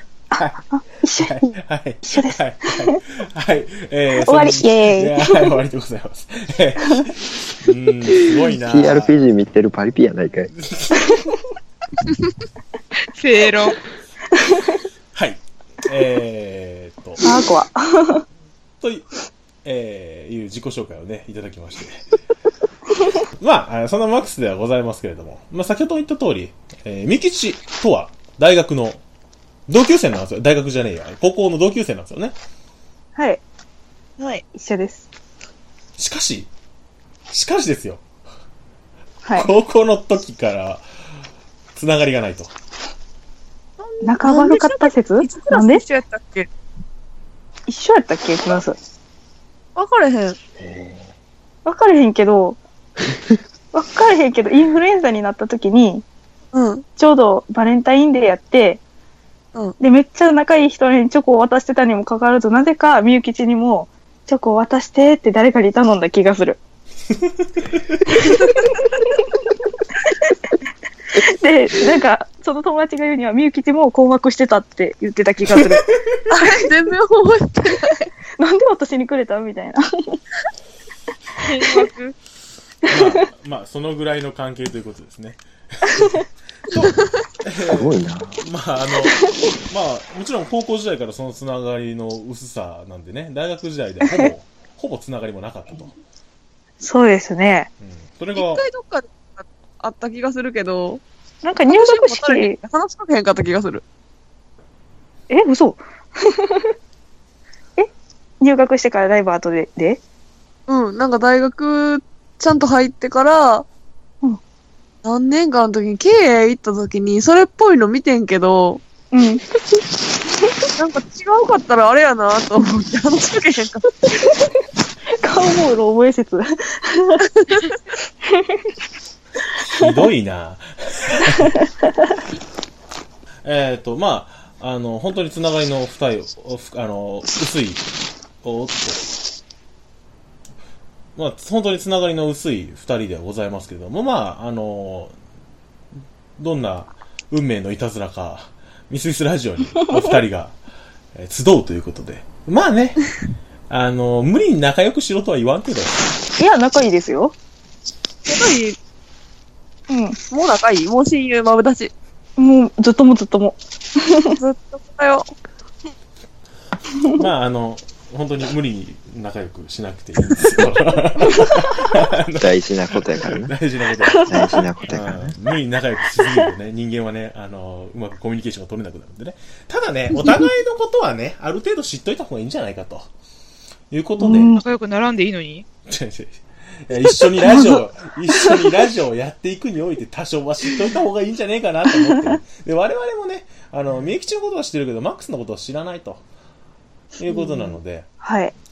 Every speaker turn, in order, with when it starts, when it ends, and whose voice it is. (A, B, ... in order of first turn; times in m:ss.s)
0:00.3-0:01.4 A
0:00.4-0:00.6 B
0:01.2-0:09.2 B
0:02.1-0:03.0 A
0:04.2-0:05.5 A
0:08.3-0:10.5 C
0:10.6-0:11.4 B
0:13.1-0:13.8 D
0:14.4-0:14.8 A
0:15.1-0:17.2 B
0:17.2-0:18.2 A
0:18.8-0:19.1 B
0:19.6-0:22.1 B
0:23.4-0:29.0 B
0:29.7-0:32.4 B
0:33.2-0:33.4 A
0:34.2-0:34.4 E
0:34.5-0:35.0 A
0:36.0-0:36.5 B
0:37.3-0:38.0 B
0:39.4-0:40.8 B
0:41.8-0:42.5 B
0:43.8-0:46.5 E
0:44.0-0:45.8 A
0:47.7-0:48.8 A
0:49.8-0:50.4 E
0:50.6-0:51.1 C
0:51.6-0:52.6 A
0:53.7-0:56.0 A
0:56.5-0:56.8 E
0:57.0-0:58.8 A
0:59.8-1:06.6 A
1:08.1-1:09.1 A
1:11.2-1:16.7 A
1:15.5-1:16.2 B
1:16.3-1:18.1 E
1:18.4-1:20.2 A
1:21.4-1:22.1 D
1:22.9-1:36.0 B
1:27.7-1:28.4 C
1:36.8-1:37.7 A
1:37.8-1:38.6 B
1:38.3-1:41.0 E
1:41.4-1:42.6 A
1:41.7-1:43.8 E
1:45.3-1:46.7 A
1:48.4-1:50.0 A
1:50.7-1:53.6 E
1:55.0-1:58.8 E
1:59.1-1:59.4 A
2:00.8-2:03.9 E
2:05.2-2:07.2 A
2:08.3-2:08.6 A
2:09.7-2:11.5 B
2:11.3-2:11.9 A
2:13.4-2:17.8 B
2:18.4-2:19.1 B
2:21.2-2:25.1 B
2:26.4-2:30.6 B
2:31.2-2:33.1 B
2:33.7-2:36.0 B
2:36.4-2:37.4 A
2:38.3-2:38.8 E
2:39.9-2:40.2 A
2:40.3-2:41.9 E
2:42.4-2:44.4 A
2:44.4-2:45.3 E
2:47.2-3:03.1 B
2:52.4-2:53.5 C
2:54.2-2:54.6 A
2:54.3-2:55.4 C
3:00.2-3:00.4 E
3:03.9-3:04.6 B
3:04.2-3:04.6 A
3:04.5-3:05.6 D
3:05.9-3:16.2 B
3:17.2-3:18.1 B
3:17.3-3:17.7 E
3:18.2-3:18.5 A